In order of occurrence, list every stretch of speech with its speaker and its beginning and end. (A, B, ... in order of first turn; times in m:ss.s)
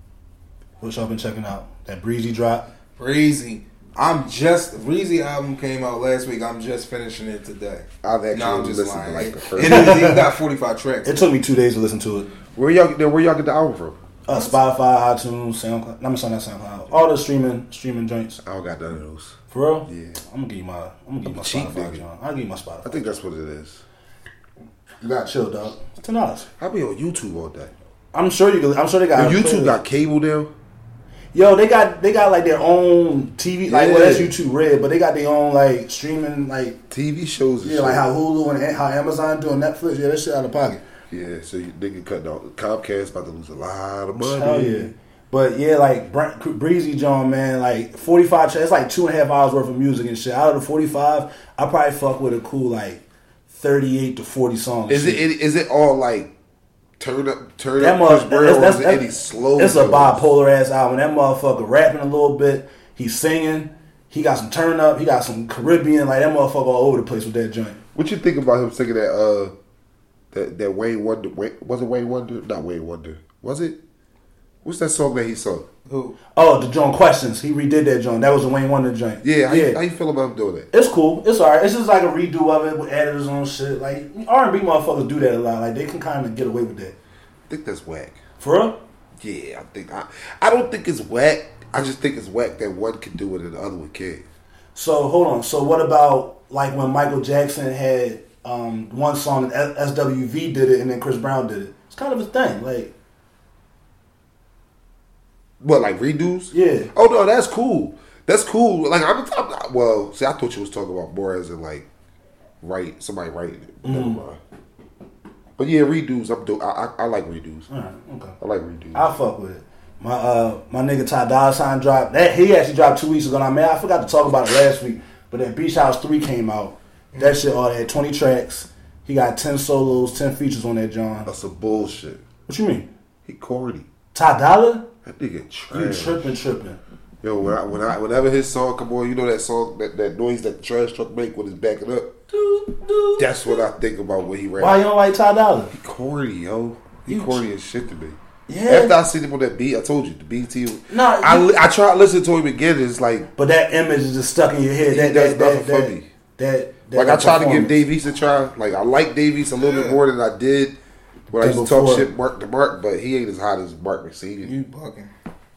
0:00.8-0:02.6 A
0:03.0-0:11.3 B
0:08.0-0:09.9 C
0:09.6-0:10.3 A
0:11.0-0:12.3 A
0:12.5-0:14.0 C
0:14.3-0:18.4 A
0:14.3-0:14.6 B
0:18.4-0:20.2 C
0:19.5-0:23.2 A
0:21.3-0:22.0 C
0:22.8-0:23.8 C
0:25.0-0:26.5 A
0:26.6-0:27.7 C
0:28.1-0:29.8 A
0:29.1-0:30.5 C
0:31.3-0:36.8 A
0:33.6-0:34.3 C
0:36.9-0:38.1 C
0:37.6-0:40.8 A
0:41.1-0:44.9 C
0:44.2-0:55.2 A
0:54.9-0:56.3 C
0:57.0-1:00.2 C
0:57.8-0:59.0 A
0:59.6-1:07.8 A
1:07.9-1:09.5 C
1:10.3-1:13.8 C
1:14.6-1:15.6 C
1:15.9-1:16.2 B
1:16.4-1:19.8 A
1:19.2-1:20.7 C
1:20.7-1:26.9 A
1:27.5-1:28.2 C
1:28.4-1:28.8 A
1:29.2-1:34.2 C
1:34.7-1:42.9 A
1:45.6-1:51.8 C
1:46.5-1:46.9 A
1:52.6-1:54.4 C
1:53.8-1:54.2 A
1:55.6-1:57.7 C
1:57.7-1:58.4 A
1:58.4-1:59.0 C
1:58.9-2:11.3 A
2:11.2-2:12.2 C
2:12.5-2:12.9 A
2:13.2-2:13.9 C
2:14.1-2:14.9 A
2:15.0-2:16.3 C
2:15.7-2:16.8 A
2:17.2-2:22.1 C
2:22.3-2:23.6 A
2:23.2-2:24.8 C
2:24.6-2:25.7 A
2:25.7-2:33.3 C
2:27.1-2:27.4 A
2:28.5-2:29.0 A
2:30.9-2:31.5 A
2:33.4-2:37.8 A
2:34.9-2:36.1 C
2:36.9-2:40.7 C
2:39.6-2:40.0 B
2:41.3-2:44.5 C
2:41.4-2:42.1 A
2:44.4-2:45.1 B